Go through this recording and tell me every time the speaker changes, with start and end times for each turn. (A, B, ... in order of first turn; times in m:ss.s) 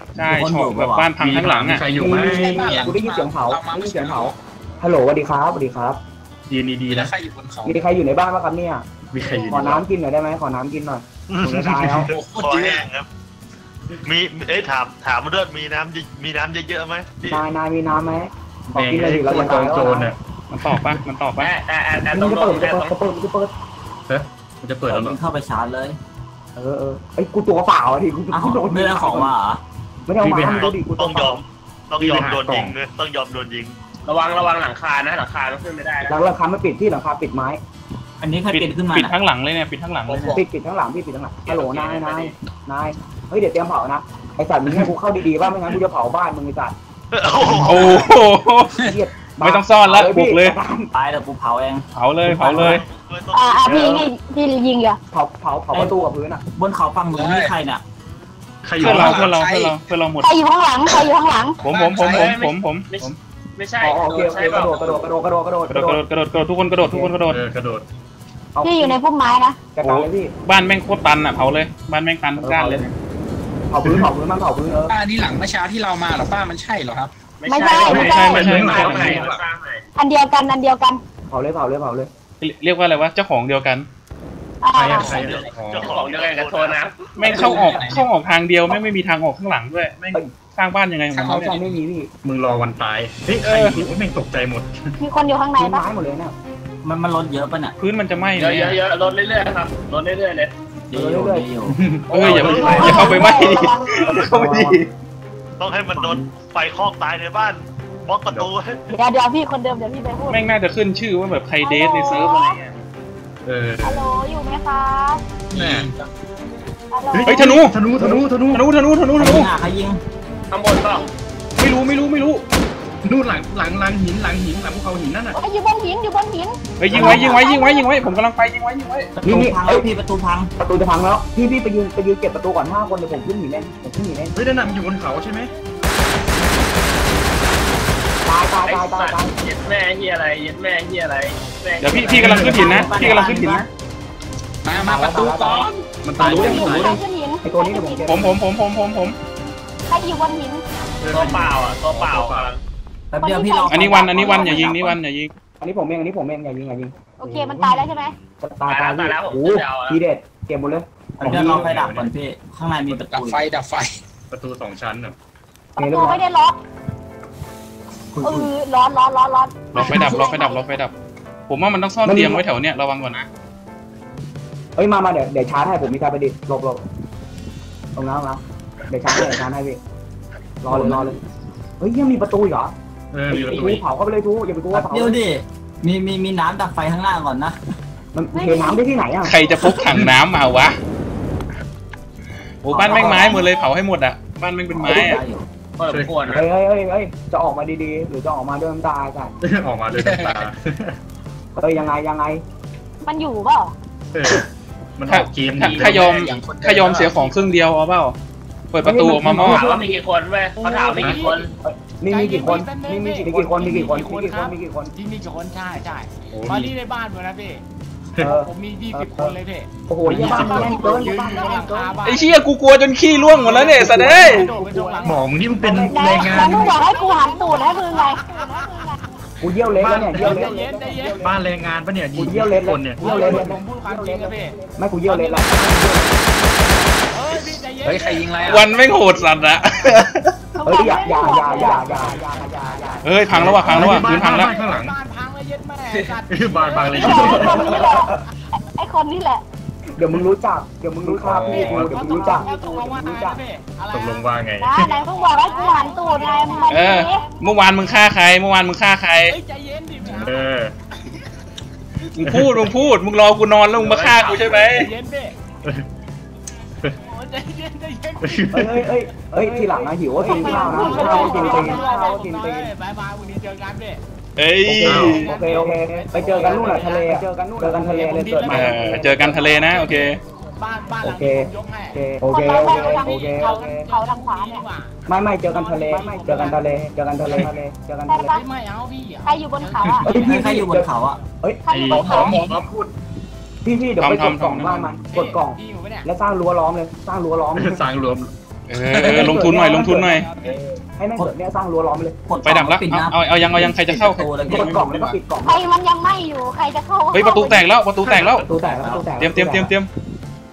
0:00.2-0:01.8 A
0:00.2-0:01.1 B
0:01.2-0:02.8 C
0:01.9-0:06.0 D
0:02.1-0:04.4 E
0:06.5-0:07.1 C
0:06.9-0:07.8 E
0:07.6-0:08.9 D
0:09.1-0:09.9 C
0:09.2-0:09.6 F
0:09.5-0:12.1 D
0:11.3-0:13.1 G
0:11.4-0:12.1 C
0:12.1-0:12.9 E
0:14.0-0:17.4 G
0:17.3-0:20.1 D
0:18.7-0:20.2 C
0:20.5-0:21.5 A
0:21.4-0:23.0 H
0:22.1-0:23.5 D
0:24.1-0:25.2 C
0:24.9-0:26.0 B
0:26.6-0:29.4 D
0:28.3-0:29.6 B
0:30.1-0:31.4 D
0:30.2-0:30.8 C
0:30.5-0:33.7 G
0:32.0-0:32.8 C
0:34.1-0:36.2 H
0:36.1-0:37.6 D
0:38.2-0:39.1 B
0:38.5-0:40.4 A
0:40.1-0:40.4 C
0:40.3-0:46.8 D
0:41.5-0:42.3 H
0:47.1-0:48.1 G
0:47.6-0:48.8 A
0:48.8-0:50.9 D
0:49.4-0:50.6 A
0:50.9-0:51.9 B
0:52.0-0:52.8 A
0:52.3-0:52.8 D
0:52.4-0:52.7 B
0:52.6-0:54.1 G
0:53.3-0:55.0 F
0:55.1-0:56.4 D
0:55.7-0:56.0 B
0:56.6-0:57.8 B
0:57.1-0:57.5 E
0:58.6-0:59.3 C
0:58.8-0:59.8 E
0:58.8-1:00.3 A
1:00.2-1:01.6 F
1:01.6-1:03.2 A
1:01.6-1:02.4 E
1:02.1-1:05.0 H
1:03.8-1:06.0 D
1:05.7-1:07.4 A
1:06.9-1:07.1 D
1:07.3-1:07.8 C
1:08.6-1:09.0 D
1:08.6-1:09.6 F
1:09.8-1:10.3 D
1:09.8-1:12.9 A
1:12.4-1:13.0 D
1:13.7-1:15.0 D
1:13.8-1:14.1 C
1:14.9-1:17.1 E
1:17.4-1:19.8 H
1:17.5-1:18.6 F
1:17.7-1:19.4 C
1:17.8-1:19.2 D
1:17.9-1:19.3 A
1:20.0-1:21.0 F
1:21.3-1:22.1 D
1:22.4-1:23.9 A
1:24.6-1:25.2 F
1:24.7-1:25.9 C
1:25.2-1:26.9 G
1:25.3-1:27.0 H
1:27.2-1:31.6 A
1:27.2-1:28.1 E
1:31.2-1:31.8 E
1:31.3-1:32.1 D
1:32.2-1:34.8 C
1:33.4-1:33.8 A
1:35.0-1:35.8 F
1:35.6-1:36.4 D
1:36.8-1:37.8 B
1:37.8-1:38.8 A
1:38.4-1:40.5 H
1:40.9-1:41.8 B
1:40.9-1:41.5 D
1:41.7-1:43.3 C
1:42.1-1:44.8 D
1:42.1-1:44.9 A
1:42.2-1:43.0 H
1:42.3-1:42.9 G
1:42.6-1:43.9 F
1:45.6-1:48.8 G
1:46.0-1:46.3 D
1:48.9-1:50.4 F
1:50.3-1:52.8 A
1:51.6-1:52.6 F
1:53.4-1:54.1 C
1:53.8-1:55.2 F
1:55.5-1:56.1 E
1:55.5-1:55.9 C
1:56.9-1:57.6 F
1:57.1-1:58.7 C
1:57.2-1:57.8 A
1:58.0-1:58.2 D
1:58.5-1:59.5 A
1:59.2-2:00.0 B
2:00.5-2:01.1 H
2:00.8-2:01.1 F
2:01.6-2:02.4 A
2:03.0-2:05.4 C
2:05.3-2:07.9 F
2:06.8-2:09.1 A
2:06.9-2:07.4 D
2:09.2-2:10.5 B
2:09.2-2:09.9 D
2:10.6-2:14.4 D
2:14.4-2:15.5 C
2:18.2-2:19.3 D
2:18.6-2:22.2 H
2:21.8-2:23.6 A
2:22.0-2:23.4 D
2:22.1-2:22.9 C
2:22.5-2:23.7 B
2:24.6-2:25.7 E
2:24.7-2:28.3 D
2:26.0-2:27.0 C
2:26.2-2:28.2 F
2:28.1-2:29.2 A
2:29.9-2:30.6 F
2:31.0-2:32.5 C
2:31.1-2:32.6 H
2:33.1-2:35.0 B
2:33.2-2:34.8 F
2:33.7-2:35.3 A
2:35.6-2:37.0 D
2:37.2-2:38.2 F
2:37.2-2:37.9 C
2:38.4-2:41.7 D
2:38.7-2:40.0 H
2:41.2-2:43.4 B
2:41.2-2:42.1 C
2:43.1-2:43.9 E
2:44.3-2:45.2 C
2:45.8-2:46.6 F
2:45.8-2:46.2 D
2:48.2-2:50.6 F
2:49.7-2:50.9 A
2:49.8-2:50.1 E
2:51.5-2:53.3 A
2:52.0-2:52.4 D
2:54.8-2:56.8 D
2:58.0-2:59.8 D
3:00.6-3:01.2 D
3:01.8-3:02.7 D
3:03.1-3:03.8 C
3:03.3-3:05.2 D
3:04.7-3:07.6 B
3:08.1-3:09.3 D
3:08.3-3:08.8 F
3:09.2-3:10.8 A
3:09.8-3:10.1 C
3:12.6-3:15.2 A
3:12.7-3:13.4 B
3:12.7-3:13.4 D
3:12.9-3:13.4 F
3:14.7-3:15.5 B
3:14.8-3:15.2 D
3:15.8-3:16.5 H
3:15.9-3:16.2 C
3:16.3-3:19.3 D
3:19.4-3:21.0 C
3:19.9-3:20.5 E
3:21.6-3:22.4 D
3:23.0-3:23.7 F
3:24.1-3:26.1 C
3:25.1-3:28.2 A
3:25.6-3:27.5 E
3:28.7-3:29.6 A
3:28.8-3:30.0 D
3:29.4-3:31.5 H
3:30.6-3:31.4 I
3:31.2-3:34.9 D
3:32.1-3:37.6 I
3:33.6-3:33.9 C
3:36.3-3:36.8 C
3:38.2-3:42.0 D
3:38.2-3:39.7 I
3:40.0-3:40.9 C
3:40.2-3:41.7 F
3:40.2-3:42.5 I
3:42.0-3:44.5 A
3:43.2-3:45.3 I
3:43.4-3:46.7 D
3:45.0-3:46.8 C
3:45.9-3:49.0 F
3:46.2-3:49.0 I
3:49.4-3:51.5 D
3:49.7-3:51.3 I
3:49.8-3:50.5 C
3:51.2-3:53.5 C
3:52.2-3:56.2 D
3:53.0-3:56.2 I
3:57.0-4:00.0 I
3:57.8-3:58.7 E
3:58.4-4:00.4 A
4:00.6-4:01.9 F
4:00.6-4:03.1 D
4:00.8-4:08.1 I
4:03.0-4:04.5 A
4:03.3-4:05.0 C
4:06.3-4:07.7 C
4:06.9-4:09.4 F
4:07.0-4:08.2 D
4:10.0-4:13.4 D
4:11.0-4:12.2 C
4:11.5-4:18.1 I
4:13.9-4:14.9 C
4:14.6-4:17.3 F
4:16.7-4:19.4 A
4:19.3-4:20.5 I
4:20.0-4:20.7 C
4:22.2-4:24.9 A
4:22.2-4:22.7 C
4:23.8-4:24.6 H
4:24.5-4:25.4 I
4:27.1-4:34.0 I
4:28.2-4:28.8 C
4:28.5-4:32.7 D
4:30.3-4:32.0 F
4:34.4-4:35.3 A
4:34.7-4:39.9 D
4:34.8-4:35.2 C
4:35.1-4:46.6 I
4:38.5-4:40.2 A
4:41.0-4:43.8 D
4:42.3-4:44.7 F
4:45.1-4:48.3 D
4:47.2-4:47.5 C
4:48.1-4:48.4 F
4:48.3-4:50.5 I
4:49.3-4:50.1 F
4:50.1-4:52.4 D
4:50.2-4:51.2 B
4:51.6-4:52.5 F
4:51.7-4:52.9 C
4:53.6-4:57.9 D
4:54.0-4:54.9 A
4:55.1-4:56.1 I
4:57.6-4:58.3 C
4:58.7-5:00.3 A
4:58.9-5:02.2 D
4:59.8-5:00.6 I
5:02.3-5:04.8 B
5:02.4-5:05.1 A
5:04.5-5:05.0 C
5:04.5-5:05.6 D
5:05.4-5:07.6 F
5:07.1-5:08.5 A
5:08.1-5:09.7 D
5:08.5-5:09.1 B
5:09.2-5:09.9 A